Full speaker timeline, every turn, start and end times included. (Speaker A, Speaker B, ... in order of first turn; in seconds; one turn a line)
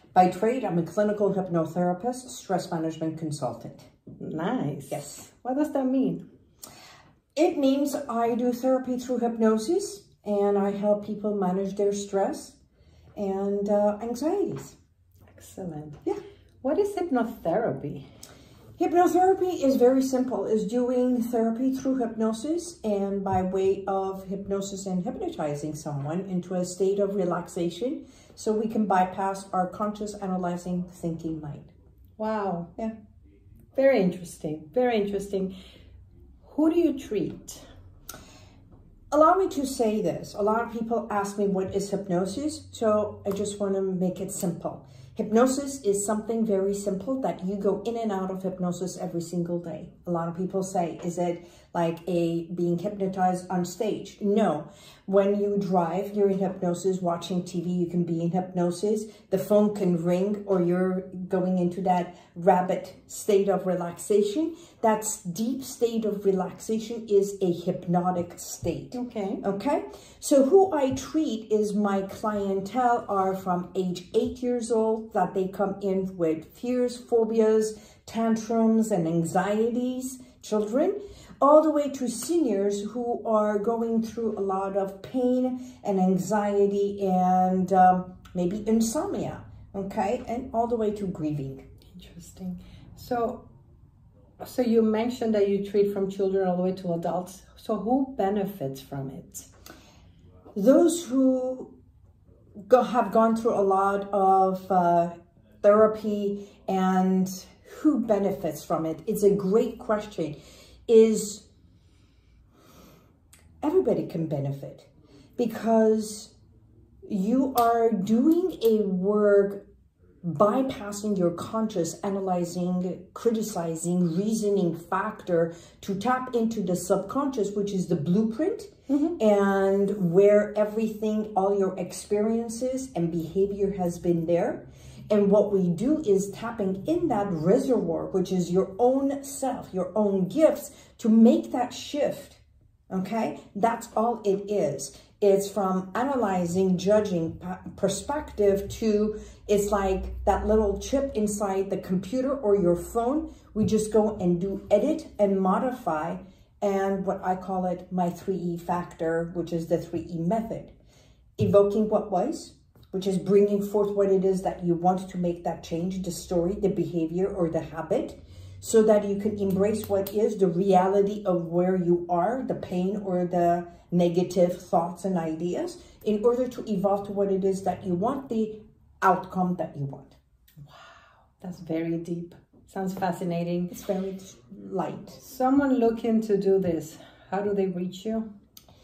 Speaker A: 0.1-3.9
Speaker B: 4.2-6.2
Speaker A: 4.9-5.2
Speaker A: 7.3-12.6
Speaker A: 13.2-14.8
Speaker B: 15.3-16.0
Speaker B: 16.6-18.1
Speaker A: 18.8-31.7
Speaker B: 32.2-32.7
Speaker B: 33.7-35.5
Speaker B: 36.4-37.6
Speaker A: 39.1-91.6
Speaker B: 68.9-69.4
Speaker B: 91.9-93.4
Speaker B: 94.4-99.5
Speaker A: 100.5-101.7
Speaker A: 102.7-110.4
Speaker A: 110.9-111.4
Speaker A: 113.6-116.3
Speaker A: 117.0-119.6
Speaker A: 120.2-160.7
Speaker B: 128.9-129.2
Speaker A: 161.4-180.2
Speaker B: 181.4-183.7
Speaker A: 183.7-185.2
Speaker B: 185.2-188.2